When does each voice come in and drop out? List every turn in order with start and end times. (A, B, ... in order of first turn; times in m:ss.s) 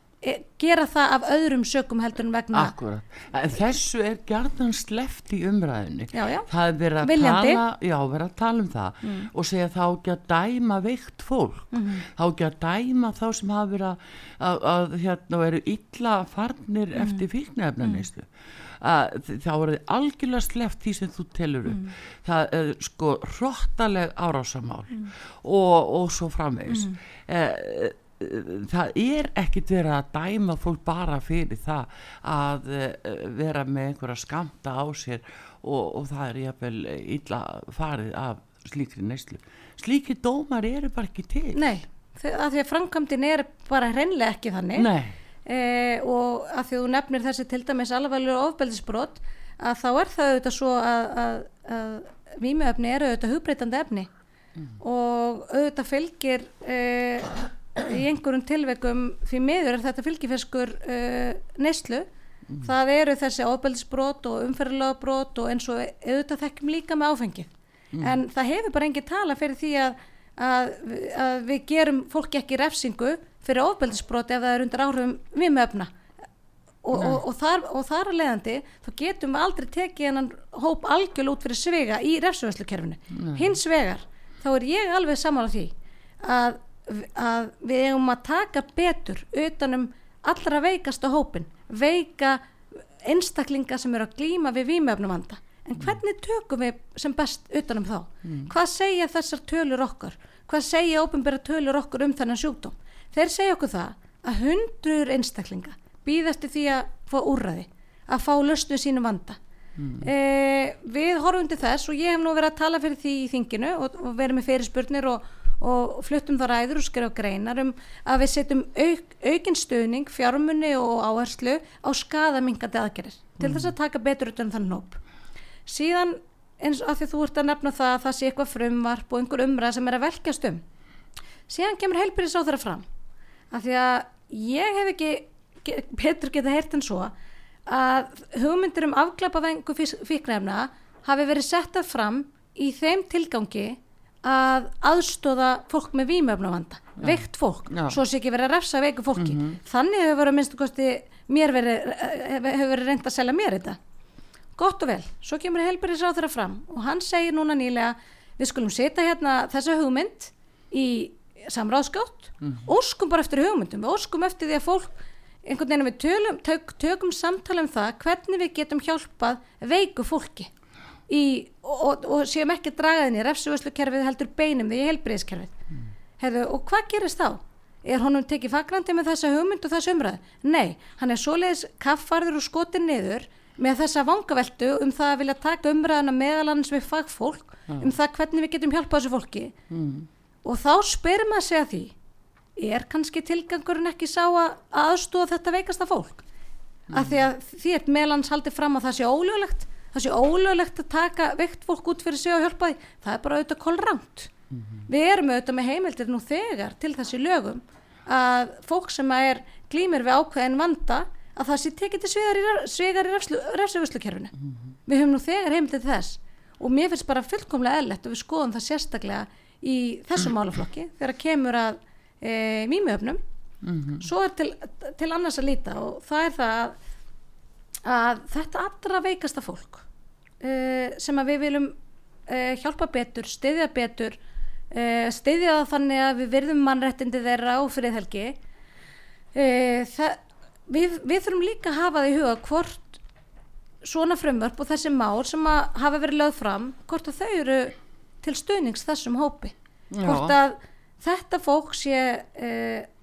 0:00.2-0:02.7 A
0:02.5-0:41.7 B
0:06.1-0:06.5 A
0:07.0-0:07.6 A
0:09.0-0:09.3 A
0:11.7-0:12.0 A
0:17.0-0:17.2 A
0:26.7-0:27.0 A
0:41.5-0:44.9 A
0:44.7-0:45.2 B
0:45.4-0:54.1 A
0:54.8-1:02.0 A
1:02.6-1:07.5 A
1:08.0-1:15.9 A
1:16.8-1:49.4 A
1:16.9-1:17.2 B
1:23.1-1:23.5 B
1:38.2-1:38.5 B
1:49.8-1:50.1 B
1:50.0-2:05.0 A
2:03.4-2:03.7 B
2:05.6-2:10.6 A
2:11.5-2:12.8 A
2:13.5-2:17.1 A
2:17.6-2:33.8 A
2:27.0-2:28.0 B
2:29.2-2:29.6 B
2:34.6-2:44.9 A
2:45.4-2:50.5 A
2:51.1-2:55.5 A
2:56.2-3:09.6 A
3:07.7-3:07.9 B
3:09.7-3:10.1 B
3:10.4-3:11.9 A
3:12.6-3:16.2 A
3:16.9-3:17.2 B
3:16.9-3:24.3 A
3:24.5-3:24.8 B
3:24.9-3:34.3 A
3:34.8-3:43.2 A
3:43.6-3:44.1 B
3:44.0-3:46.8 A
3:47.8-3:49.8 A
3:50.4-3:51.8 A
3:52.3-3:54.2 A
3:54.7-3:58.4 A
3:59.3-4:03.0 A
4:03.8-4:12.9 A
4:09.9-4:10.4 B